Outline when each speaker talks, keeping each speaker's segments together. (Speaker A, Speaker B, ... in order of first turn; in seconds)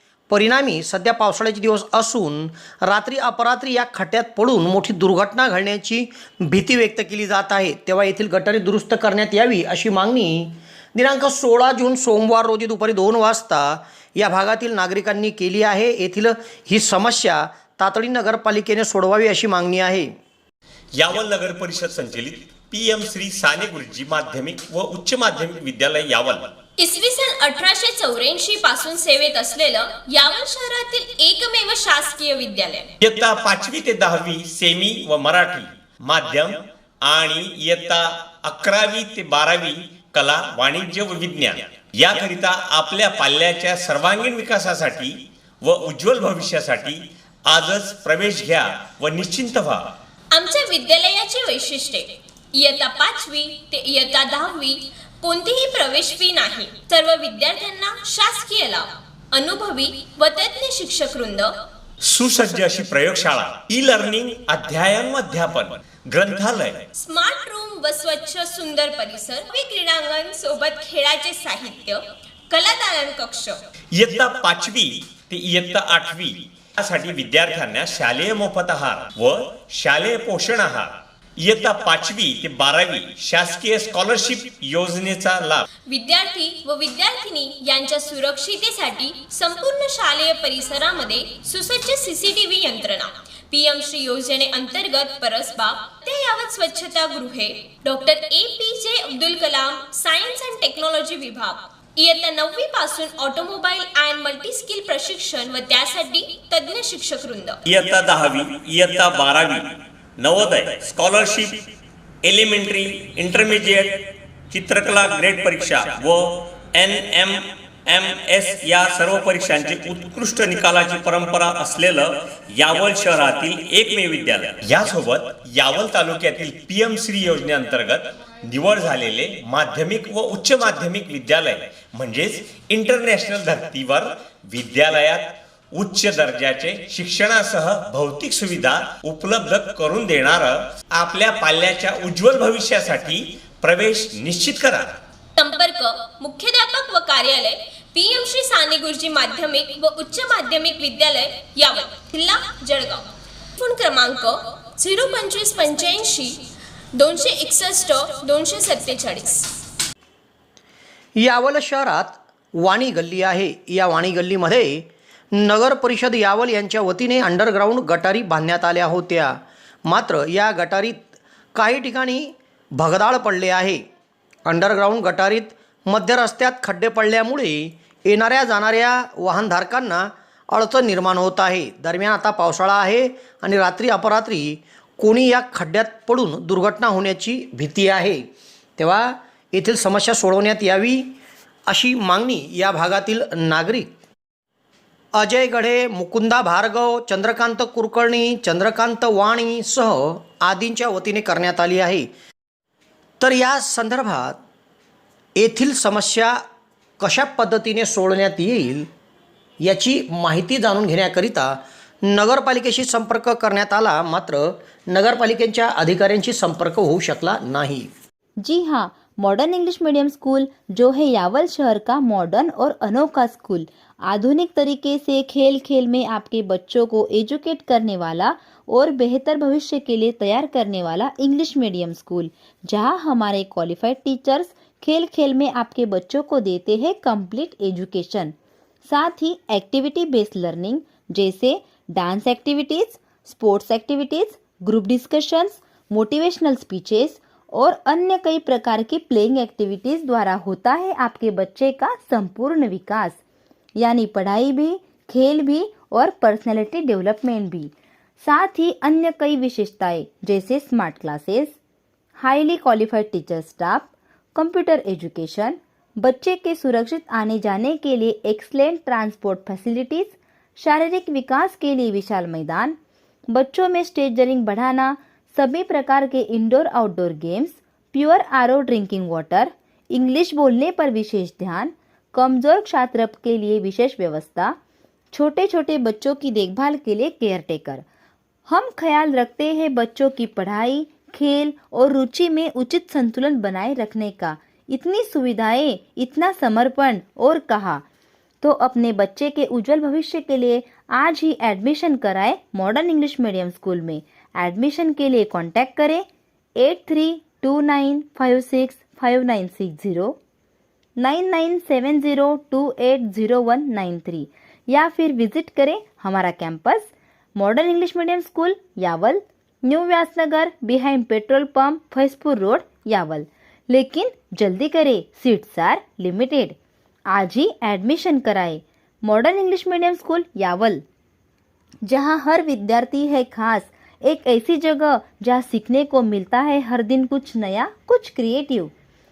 Speaker A: 0.3-20.1, 161.2-173.8, 174.4-188.2, 188.8-191.1, 191.7-193.9, 195.1-202.1, 203.2-204.4, 205.4-206.4, 207.0-208.9, 209.6-217.9
Speaker B: 20.9-26.5, 33.0-49.9, 62.0-66.8, 73.9-85.7, 107.7-111.6, 112.2-145.0
Speaker C: 26.8-32.9, 50.3-61.5, 67.0-73.6, 85.9-107.6, 145.3-159.5
Speaker D: 218.4-238.3, 238.8-253.2, 253.8-261.6, 262.2-272.8, 273.3-284.5, 285.1-287.8, 288.5-297.8, 298.4-306.1, 306.6-310.2, 311.0-326.6, 327.1-330.8, 331.9-338.7